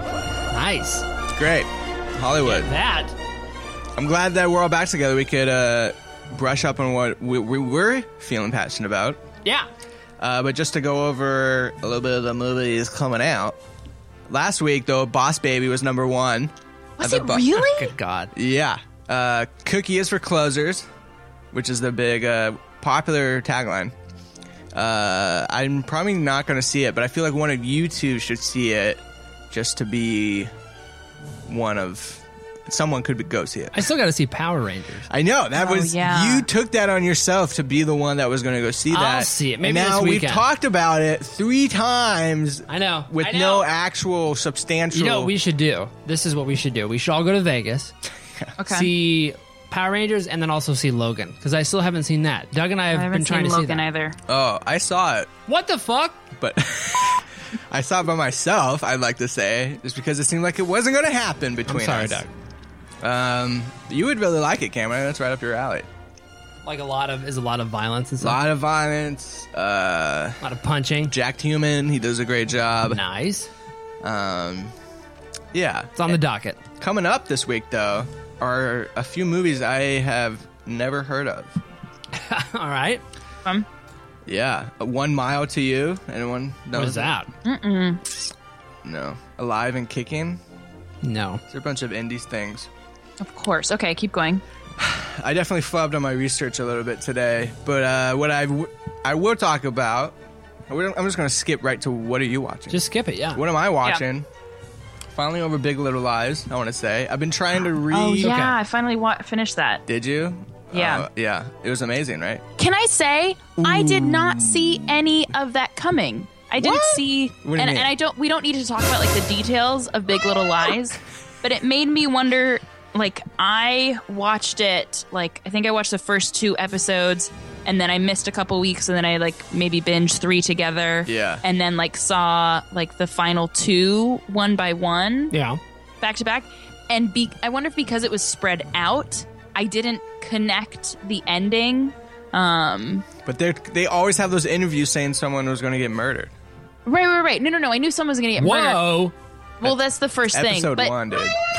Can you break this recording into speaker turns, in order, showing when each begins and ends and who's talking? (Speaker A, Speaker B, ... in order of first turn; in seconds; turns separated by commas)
Speaker A: 0.5-1.0, Speaker B: 1.3-2.7, Speaker A: 2.4-3.1, Speaker B: 4.0-9.2, Speaker B: 10.2-13.6, Speaker B: 14.3-17.6, Speaker C: 17.0-17.9, Speaker A: 17.6-18.3, Speaker B: 18.3-20.9, Speaker B: 21.5-23.9, Speaker B: 24.7-30.5, Speaker B: 31.5-33.8, Speaker A: 33.7-35.1, Speaker B: 35.1-45.3, Speaker C: 35.5-36.5, Speaker A: 38.9-40.4, Speaker A: 42.7-43.7, Speaker A: 44.9-47.9, Speaker C: 48.6-48.9, Speaker A: 48.7-53.8, Speaker C: 52.9-54.2, Speaker B: 54.3-55.3, Speaker A: 55.5-56.2, Speaker B: 56.4-62.2, Speaker A: 61.7-62.3, Speaker B: 63.0-65.9, Speaker A: 66.6-68.4, Speaker B: 68.2-70.4, Speaker A: 70.4-71.1, Speaker B: 71.1-73.0, Speaker A: 72.9-73.5, Speaker B: 74.0-74.7, Speaker B: 75.5-76.2, Speaker A: 76.0-76.6, Speaker B: 76.8-81.6, Speaker A: 82.1-83.0, Speaker B: 84.2-87.1, Speaker A: 86.7-87.3, Speaker C: 87.4-88.0, Speaker B: 88.8-90.4, Speaker A: 91.0-91.4, Speaker B: 91.5-92.7, Speaker C: 93.2-94.4, Speaker B: 94.8-100.2, Speaker B: 100.7-102.8, Speaker A: 102.7-103.4, Speaker B: 103.3-104.2, Speaker B: 105.1-108.3, Speaker C: 107.7-109.8, Speaker A: 108.2-108.5, Speaker B: 109.9-112.4, Speaker C: 110.7-111.1, Speaker C: 112.6-135.3, Speaker B: 113.6-114.8, Speaker B: 116.6-117.9, Speaker B: 131.1-131.4, Speaker A: 135.3-135.6, Speaker C: 136.0-143.0, Speaker B: 143.2-146.3, Speaker C: 146.8-148.8, Speaker A: 148.4-149.1, Speaker C: 149.6-150.9, Speaker B: 150.3-151.4